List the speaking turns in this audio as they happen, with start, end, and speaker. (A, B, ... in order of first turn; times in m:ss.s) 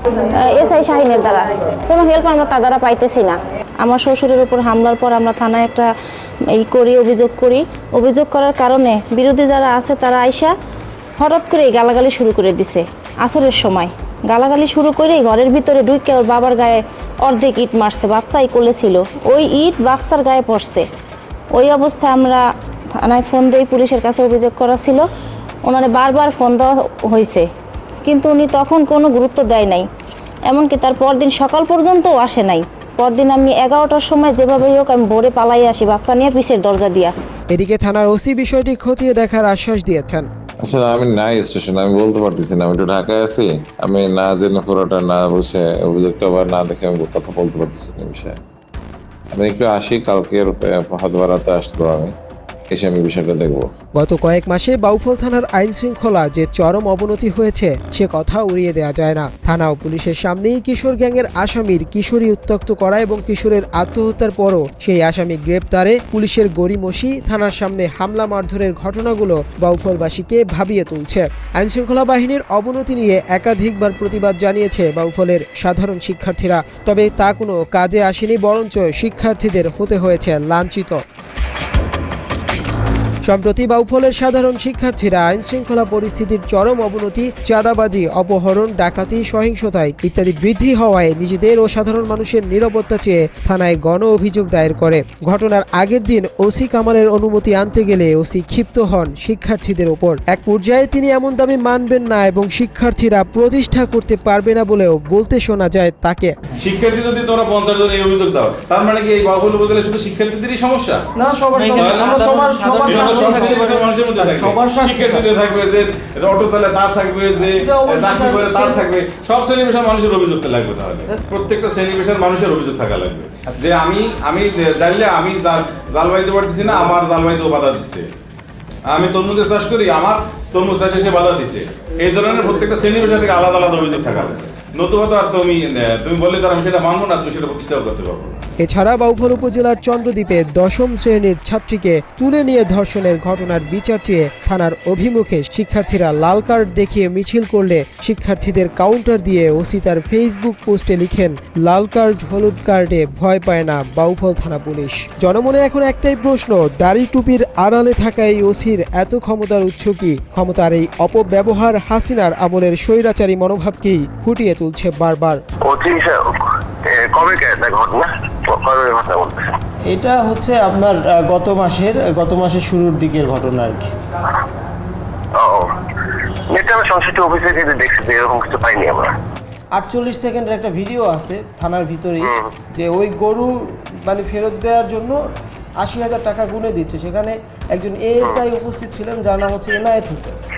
0:00.3-0:05.9 A
0:06.6-0:10.5 A
0:11.2-0:20.8 A
0:21.6-0:22.4 A
0:23.0-0:25.1 A
0:25.7-0:27.5 A
0:28.1-0:29.9 A
0:30.5-0:37.1 A
0:37.5-0:40.3 B
0:40.6-0:48.4 C
0:49.3-0:52.1 C
0:52.7-0:53.7 C
0:54.0-1:21.0 B
1:23.3-1:46.3 B
1:46.6-1:51.0 D
1:51.2-1:55.3 E
1:51.6-2:08.1 D
1:57.6-1:58.9 E
2:08.9-2:18.4 D
2:18.6-2:45.4 B
2:45.7-2:49.5 F
2:49.9-2:53.9 E
2:55.4-2:55.7 F
2:56.5-2:59.1 F
2:59.8-3:05.2 E
3:02.2-3:02.5 F
3:05.8-3:10.4 E